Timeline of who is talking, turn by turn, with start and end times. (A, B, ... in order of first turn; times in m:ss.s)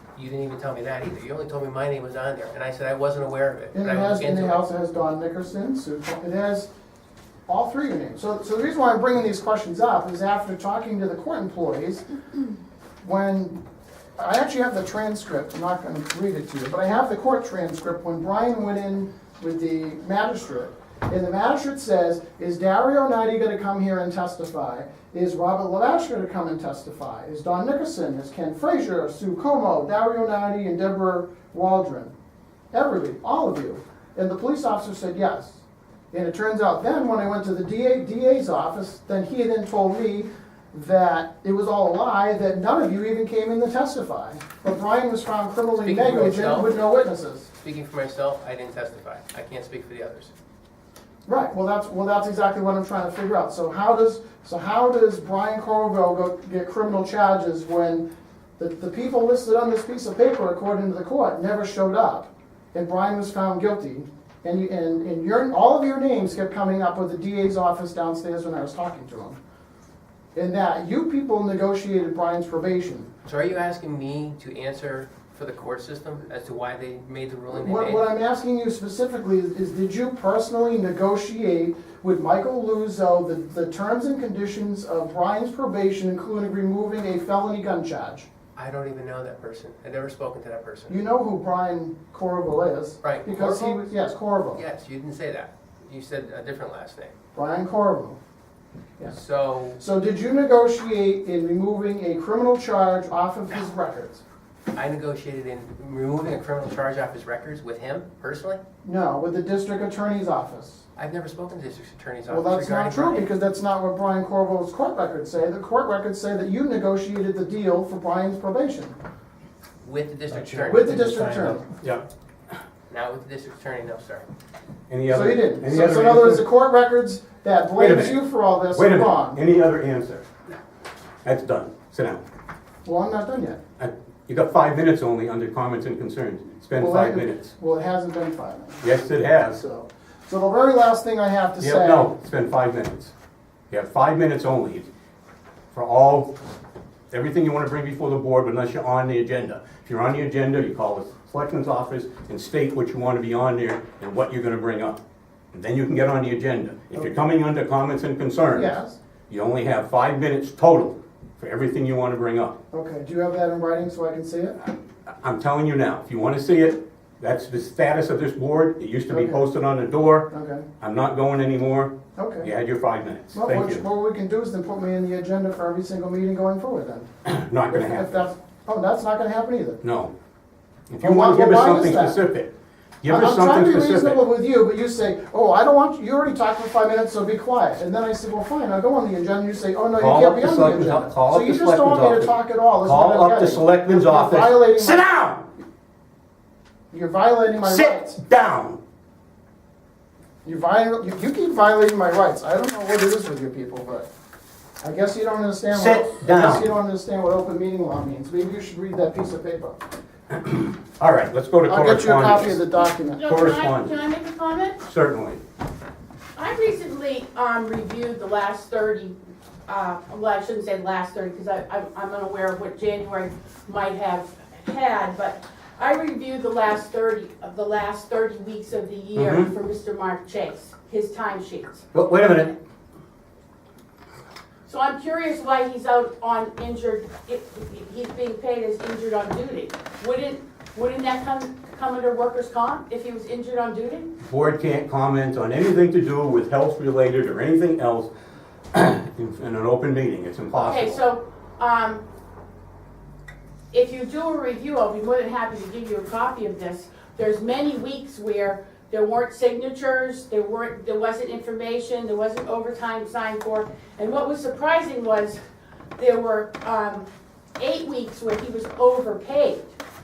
0:00.1-0:04.6 A
0:03.7-0:06.7 B
0:07.5-0:12.0 B
0:13.0-0:13.6 B
0:14.2-0:32.1 B
0:32.7-0:47.5 B
0:45.8-0:46.8 A
0:47.6-0:50.3 A
0:51.2-0:58.0 B
0:58.6-1:09.4 B
1:10.3-1:13.1 B
1:13.2-1:18.1 A
1:17.5-1:28.3 B
1:28.6-1:31.0 A
1:30.9-1:34.6 B
1:33.0-1:33.9 A
1:34.5-1:37.1 A
1:37.3-1:38.2 B
1:39.1-1:39.8 A
1:39.8-1:44.2 B
1:44.7-1:48.6 A
1:48.8-1:50.8 B
1:51.0-1:53.3 A
1:52.3-1:59.0 B
1:59.8-2:01.6 A
2:00.6-2:01.6 B
2:02.9-2:04.3 A
2:04.9-2:06.4 C
2:05.1-2:09.4 B
2:07.8-2:10.3 C
2:11.2-2:12.2 C
2:12.8-2:13.6 B
2:13.8-2:17.5 C
2:16.8-2:18.8 B
2:18.8-2:19.6 C
2:19.5-2:22.1 B
2:21.6-2:23.1 C
2:23.7-2:24.9 C
2:25.7-2:26.3 C
2:27.1-2:35.0 C
2:35.5-2:38.7 C
2:38.5-2:39.0 B
2:39.3-2:42.6 C
2:42.7-2:44.6 B
2:45.2-2:50.3 C
2:49.1-2:49.4 B
2:50.3-2:50.7 B
2:50.8-2:53.8 C
2:52.2-2:52.5 B
2:53.3-2:57.1 B
2:57.2-2:58.2 C
2:57.7-2:59.8 B
2:59.8-3:00.1 C
3:00.9-3:04.2 C
3:01.0-3:02.2 B
3:03.0-3:15.1 B
3:10.0-3:15.5 C
3:16.9-3:18.2 B
3:17.6-3:18.8 C
3:20.4-3:24.1 B
3:24.8-3:29.8 B
3:25.7-3:26.7 C
3:30.3-3:32.6 C
3:31.7-3:33.2 B
3:33.1-3:34.8 D
3:33.2-3:33.9 C
3:34.8-3:35.4 C
3:36.4-3:51.9 D
3:49.1-3:49.5 C
3:51.9-3:52.5 C
3:54.6-4:04.1 D
4:04.2-4:08.1 C
4:08.7-4:11.0 C
4:10.5-4:12.0 D
4:13.7-4:25.4 D
4:26.0-4:27.1 D
4:27.6-4:29.7 D